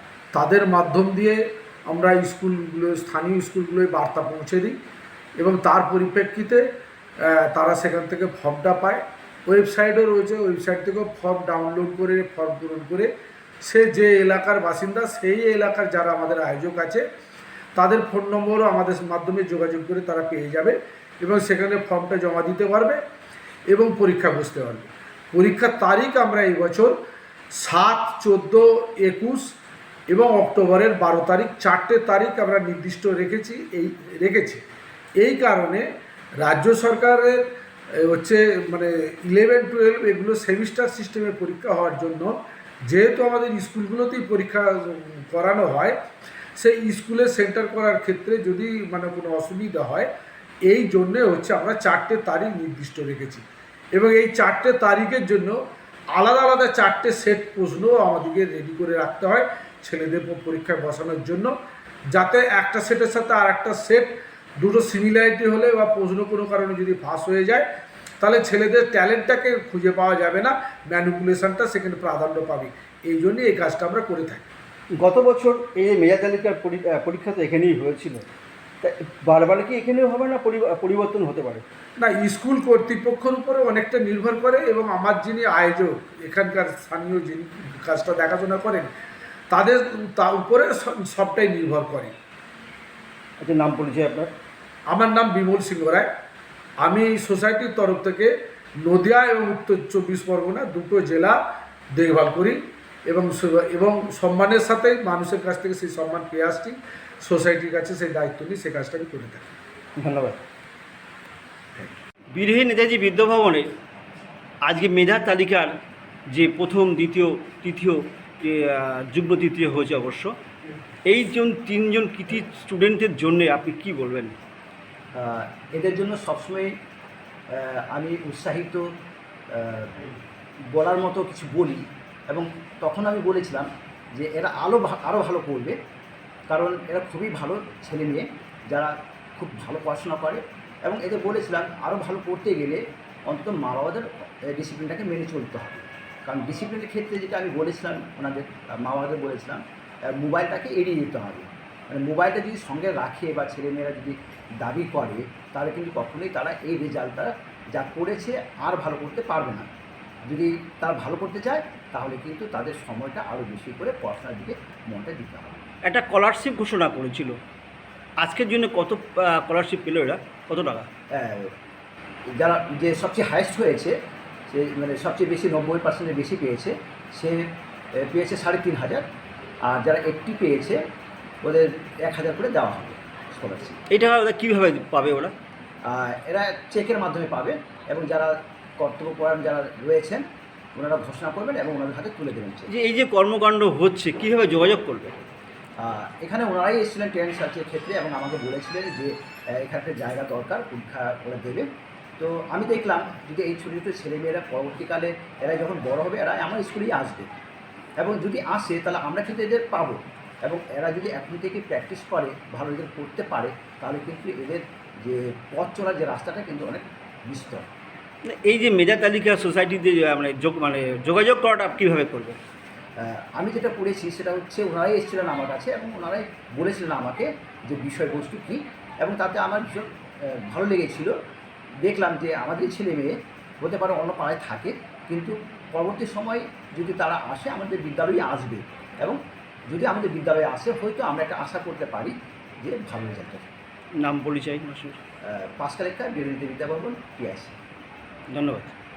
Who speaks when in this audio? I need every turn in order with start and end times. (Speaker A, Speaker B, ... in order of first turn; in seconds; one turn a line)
Speaker A: 0.3-4.8
Speaker A: 5.4-6.6
Speaker A: 7.2-13.1
Speaker A: 13.6-17.0
Speaker A: 17.8-23.0
Speaker A: 23.7-27.0
Speaker A: 27.5-29.5
Speaker A: 30.1-34.6
Speaker A: 35.2-35.9
Speaker A: 36.4-37.4
Speaker A: 37.9-42.3
Speaker A: 42.9-45.9
Speaker A: 46.6-50.1
Speaker A: 50.6-55.6
Speaker A: 56.1-61.5
Speaker A: 62.1-67.7
Speaker A: 68.2-74.4
Speaker B: 75.0-78.2
Speaker B: 78.8-81.6
Speaker A: 82.0-88.9
Speaker A: 89.5-92.1
Speaker B: 93.4-94.3
Speaker A: 94.9-96.1
Speaker A: 96.8-101.4
Speaker A: 101.9-109.5
Speaker B: 110.0-110.4
Speaker B: 112.3-113.7
Speaker B: 114.6-115.7
Speaker B: 116.3-120.3
Speaker B: 121.0-124.3
Speaker C: 125.2-126.7
Speaker C: 127.5-128.8
Speaker C: 129.5-130.1
Speaker C: 130.7-135.8
Speaker C: 136.5-149.6
Speaker C: 150.1-159.7
Speaker C: 160.3-165.6
Speaker B: 165.8-167.4
Speaker B: 168.2-170.9
Speaker C: 171.1-171.5
Speaker C: 172.4-173.9
Speaker C: 174.5-177.4
Speaker C: 178.0-179.0
Speaker C: 179.7-180.8
Speaker C: 181.4-183.8
Speaker B: 183.9-185.3
Speaker C: 185.9-190.2
Speaker C: 190.8-192.7
Speaker B: 192.7-195.2
Speaker C: 195.8-201.7
Speaker C: 202.2-207.3
Speaker C: 208.0-217.7
Speaker B: 218.2-222.4
Speaker C: 223.0-231.1
Speaker C: 231.8-239.2
Speaker C: 239.7-243.5
Speaker B: 244.0-245.0
Speaker C: 245.3-247.5
Speaker B: 248.3-248.7